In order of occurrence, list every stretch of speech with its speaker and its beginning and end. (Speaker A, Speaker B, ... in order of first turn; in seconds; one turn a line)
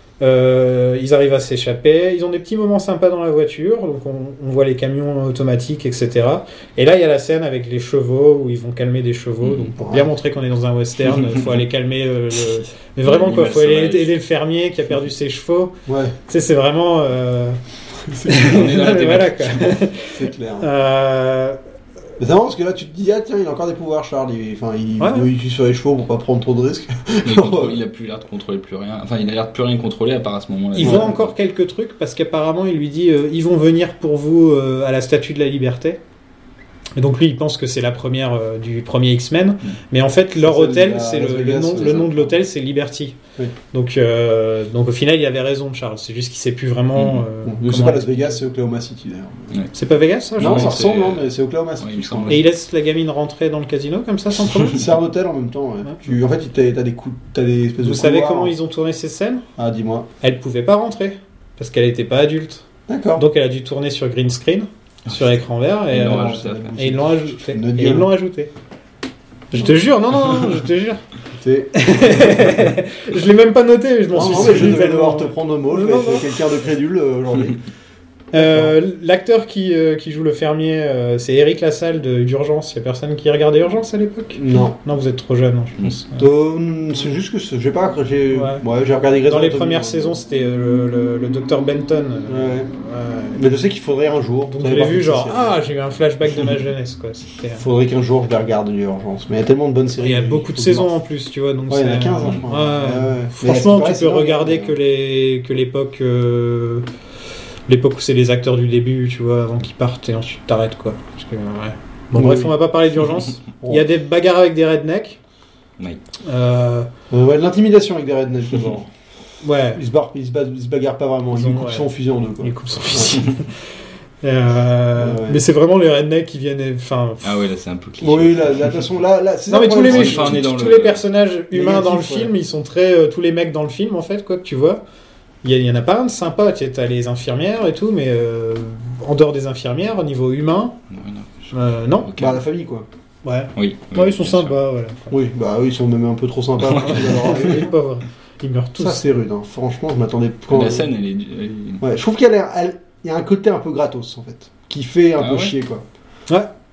Speaker A: 0.2-15.8
Speaker B: 9.4-9.7
Speaker C: 9.8-10.1
Speaker B: 11.1-11.6
Speaker B: 13.0-14.1
Speaker C: 15.9-16.1
Speaker A: 16.3-17.6
Speaker C: 18.0-18.6
Speaker A: 18.2-21.6
Speaker B: 18.3-19.8
Speaker C: 20.1-20.7
Speaker C: 22.2-27.8
Speaker A: 25.0-25.3
Speaker B: 27.2-31.3
Speaker A: 30.8-36.0
Speaker C: 30.8-31.1
Speaker A: 37.0-43.2
Speaker C: 40.4-42.3
Speaker A: 43.7-48.1
Speaker B: 46.9-47.2
Speaker C: 47.4-49.5
Speaker A: 49.7-50.7
Speaker B: 50.4-52.4
Speaker C: 50.4-52.5
Speaker A: 52.3-54.8
Speaker C: 54.7-58.5
Speaker A: 57.8-59.5
Speaker C: 59.6-60.1
Speaker A: 60.2-62.6
Speaker C: 62.9-63.2
Speaker A: 63.1-68.5
Speaker B: 65.1-66.8
Speaker C: 65.9-68.1
Speaker A: 69.5-71.0
Speaker C: 71.3-71.8
Speaker A: 71.8-76.4
Speaker C: 74.1-77.6
Speaker A: 78.3-86.3
Speaker C: 78.3-78.8
Speaker C: 84.3-84.8
Speaker C: 86.2-90.2
Speaker A: 88.3-88.6
Speaker A: 89.3-93.4
Speaker C: 92.3-92.7
Speaker C: 93.3-95.6
Speaker A: 94.5-97.6
Speaker C: 97.6-100.9
Speaker A: 100.0-106.8
Speaker C: 101.7-104.8
Speaker A: 107.7-115.2
Speaker C: 112.1-112.5
Speaker A: 116.2-116.9
Speaker C: 117.1-118.9
Speaker A: 119.4-119.8
Speaker C: 119.8-123.1
Speaker A: 121.3-123.7
Speaker A: 124.2-127.3
Speaker C: 125.0-125.4
Speaker B: 127.2-128.8
Speaker C: 128.0-130.4
Speaker A: 129.5-134.8
Speaker B: 129.8-131.0
Speaker C: 131.5-132.3
Speaker A: 135.4-140.8
Speaker B: 140.9-142.4
Speaker A: 141.5-142.1
Speaker C: 142.2-142.9
Speaker A: 143.2-145.2
Speaker B: 143.6-144.6
Speaker C: 145.1-147.7
Speaker B: 146.6-147.6
Speaker A: 146.8-149.0
Speaker C: 148.8-150.9
Speaker B: 150.5-151.8
Speaker C: 151.8-155.8
Speaker B: 155.2-155.5